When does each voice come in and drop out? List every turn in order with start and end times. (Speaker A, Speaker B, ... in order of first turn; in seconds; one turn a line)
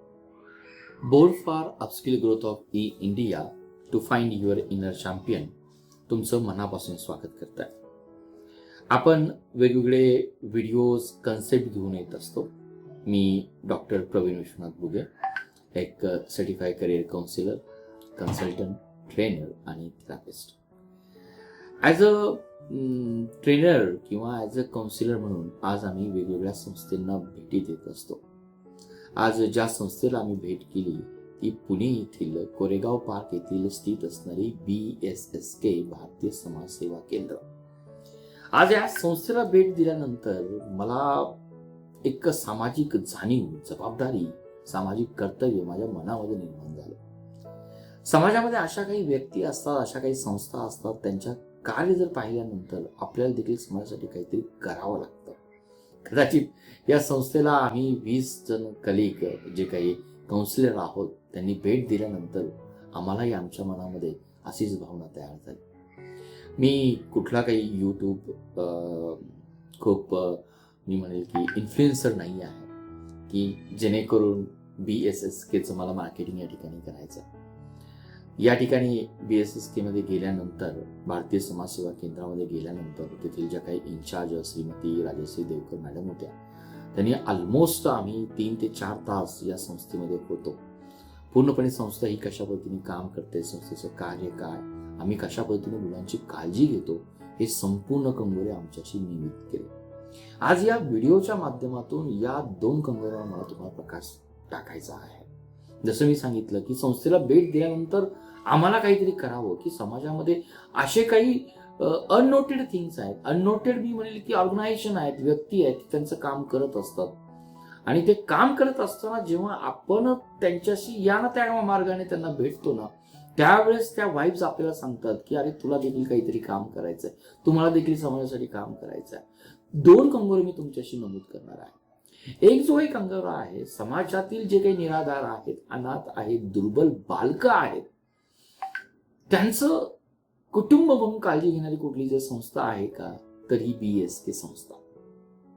Speaker A: 1.0-5.5
Speaker A: 6.1-7.7
Speaker A: 8.9-12.5
Speaker A: 13.0-15.1
Speaker A: 15.7-17.6
Speaker A: 18.1-20.6
Speaker A: 21.8-28.2
Speaker A: 29.2-37.4
Speaker A: 38.5-41.4
Speaker A: 42.0-47.0
Speaker A: 48.0-55.4
Speaker A: 56.0-65.6
Speaker A: 66.6-72.7
Speaker A: 73.3-77.3
Speaker A: 78.4-86.3
Speaker A: 86.9-90.6
Speaker A: 91.3-99.7
Speaker A: 100.4-105.3
Speaker A: 105.8-117.1
Speaker A: 117.8-137.9
Speaker A: 139.3-139.9
Speaker A: 140.5-144.8